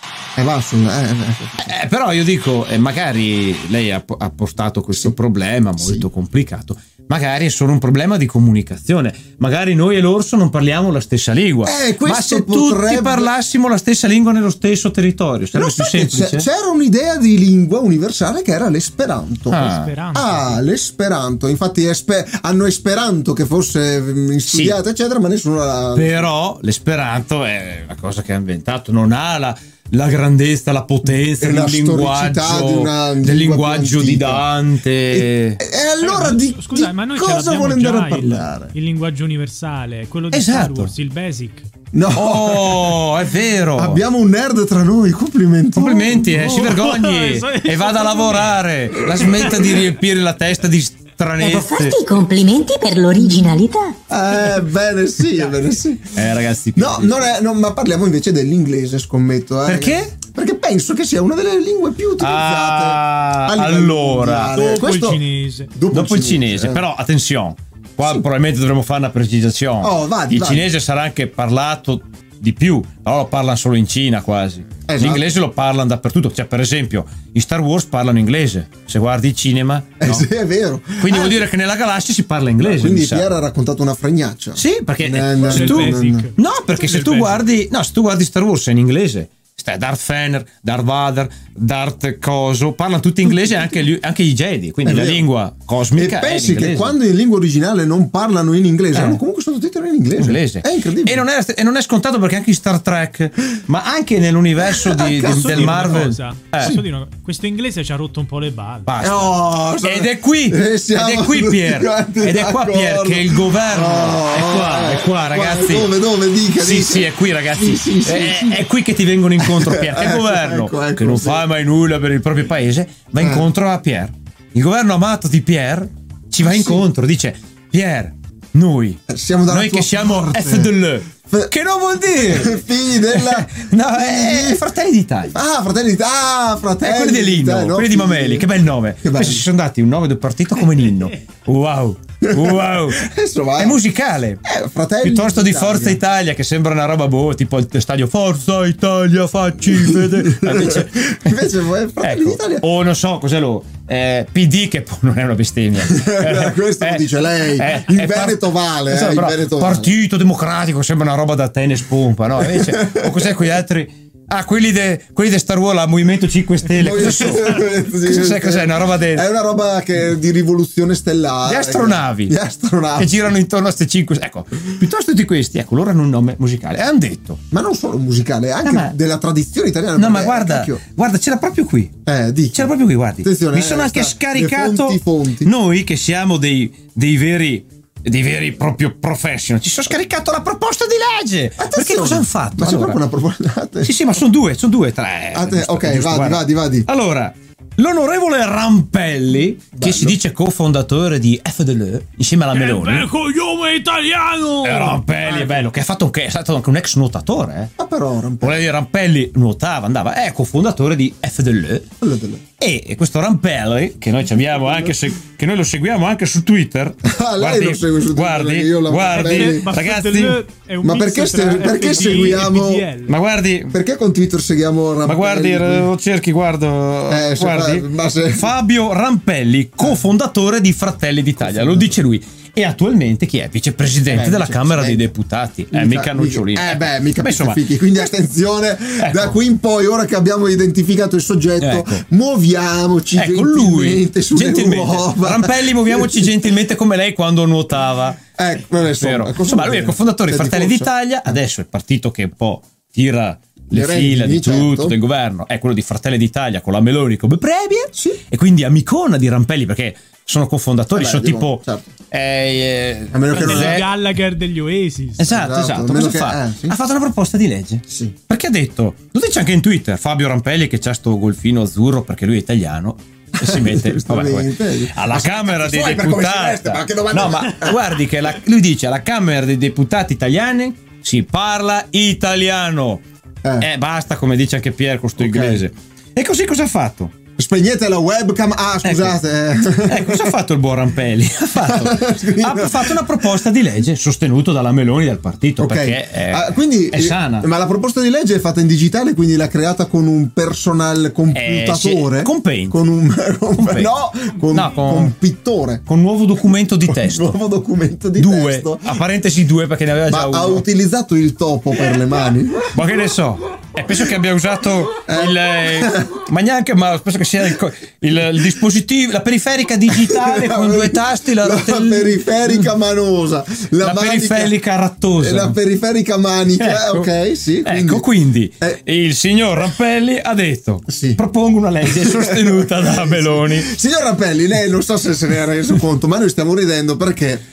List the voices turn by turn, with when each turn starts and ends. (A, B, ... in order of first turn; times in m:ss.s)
0:00.4-0:01.8 A
0:01.6-0:16.5 B
0:05.8-0:06.1 A
0:11.6-0:13.3 A
0:15.5-0:26.3 A
0:19.5-0:19.9 B
0:19.6-0:20.6 C
0:24.4-0:24.8 B
0:26.0-0:35.6 B
0:31.1-0:34.4 A
0:35.1-0:38.7 A
0:36.0-0:41.7 C
0:40.3-0:40.9 B
0:41.9-0:43.1 A
0:42.1-0:44.0 B
0:43.7-0:46.6 A
0:45.8-0:52.0 B
0:46.3-0:49.8 C
0:51.4-0:54.0 D
0:54.1-1:05.2 A
0:56.2-0:57.3 B
0:59.6-1:00.1 B
1:02.2-1:04.6 B
1:04.5-1:05.7 C
1:05.7-1:06.9 A
1:05.9-1:20.3 B
1:09.8-1:10.7 A
1:14.9-1:15.3 A
1:20.0-1:21.5 A
1:21.0-1:23.3 B
1:22.6-1:26.3 A
1:24.6-1:37.0 B
1:25.4-1:27.5 C
1:34.8-1:35.3 A
1:35.9-1:41.2 A
1:38.9-1:39.2 B
1:40.2-1:46.8 B
1:44.6-1:46.8 A
1:45.0-1:48.9 C
1:48.9-1:55.9 B
1:49.0-1:58.7 A
1:56.6-2:15.4 B
1:59.4-2:01.4 A
2:03.2-2:03.5 A
2:06.4-2:06.9 A
2:09.1-2:11.5 A
2:12.2-2:14.6 A
2:15.3-2:18.5 A
2:16.8-2:23.0 B
2:19.0-2:19.4 A
2:22.2-2:23.8 A
2:23.6-2:24.4 B
2:24.4-2:26.0 A
2:25.0-2:31.4 B
2:29.6-2:32.7 A
2:32.0-2:49.3 B
2:35.8-2:39.9 A
2:42.4-2:43.5 A
2:46.8-2:53.3 A
2:51.5-2:52.4 B
2:53.0-2:57.4 B
2:57.5-3:00.8 A
2:58.6-2:59.0 B
3:00.0-3:01.9 B
3:02.1-3:05.5 A
3:02.5-3:13.0 B
3:11.6-3:14.2 A
3:13.8-3:23.1 B
3:15.3-3:16.9 A
3:19.7-3:20.2 A
3:22.5-3:25.5 C
3:24.6-3:27.7 B
3:27.8-3:28.6 A
3:28.4-3:31.9 B
3:32.0-3:32.4 A
3:32.6-3:40.4 B
3:34.4-3:35.0 A
3:37.0-3:39.7 A
3:39.1-3:43.1 C
3:40.8-3:42.9 A
3:43.1-3:43.8 B
3:43.7-3:45.9 A
3:45.0-3:57.6 B
3:47.1-3:48.5 A
3:49.8-3:50.0 A
3:51.4-3:52.0 A
3:54.1-3:55.1 A
3:55.7-4:06.3 A
3:59.0-3:59.4 B
4:01.6-4:02.0 B
4:03.2-4:08.2 B
4:08.4-4:11.4 A
4:09.0-4:21.6 B
4:13.7-4:15.0 A
4:17.9-4:18.2 A
4:20.9-4:21.9 A
4:22.1-4:23.9 B
4:23.1-4:23.8 A
4:23.3-4:25.3 C
4:25.2-4:43.0 B
4:25.3-4:26.8 A
4:27.9-4:28.2 A
4:33.4-4:37.8 A
4:43.6-4:47.1 B
4:45.2-4:45.6 A
4:47.4-4:50.3 A
4:48.8-4:49.2 B
4:49.8-4:57.5 B
4:51.6-4:53.2 A
4:55.6-5:05.8 A
5:01.3-5:02.8 B
5:03.6-5:03.9 B
5:04.5-5:05.2 B
5:05.9-5:07.4 B
5:06.9-5:09.0 A
5:08.2-5:10.6 B
5:10.1-5:12.8 A
5:12.7-5:22.7 B
5:15.1-5:16.2 A
5:19.9-5:24.6 A
5:23.8-5:25.6 B
5:25.2-5:28.1 A
5:26.6-5:27.1 B
5:27.6-5:33.7 B
5:30.9-5:31.2 A
5:31.9-5:37.4 A